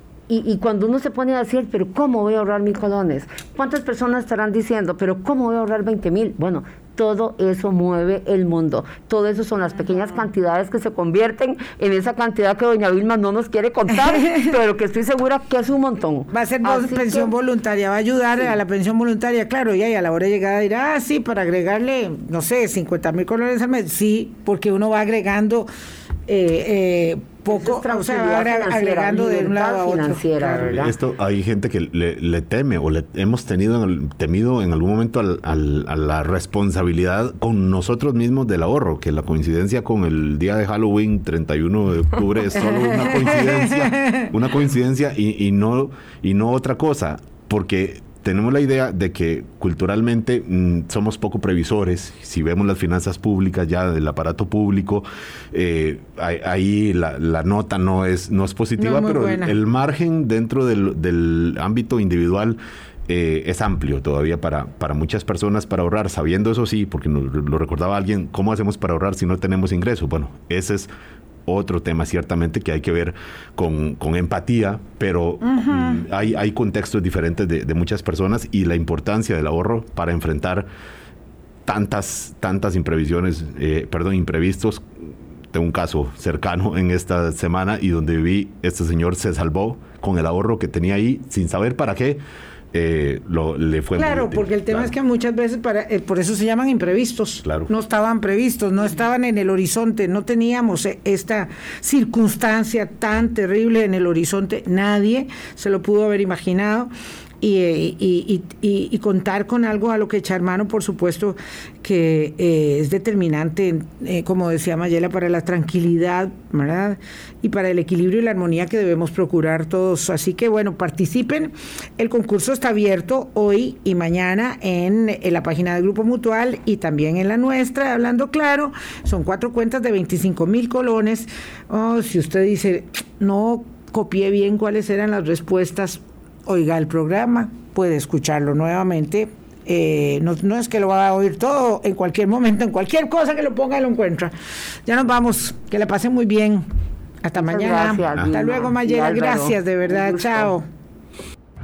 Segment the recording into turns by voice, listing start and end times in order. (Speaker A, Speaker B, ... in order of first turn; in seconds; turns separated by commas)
Speaker A: 0.3-17.3, Speaker B: 13.9-14.5, Speaker B: 16.3-25.7, Speaker B: 26.3-30.8, Speaker A: 27.5-30.9, Speaker C: 30.6-70.9, Speaker B: 43.1-44.3, Speaker B: 58.8-59.6, Speaker C: 71.5-80.7, Speaker B: 75.4-76.0, Speaker C: 81.7-92.2, Speaker C: 92.7-94.9, Speaker B: 94.0-144.3, Speaker C: 97.4-97.7, Speaker B: 144.9-146.7, Speaker B: 147.2-150.7, Speaker A: 147.4-150.5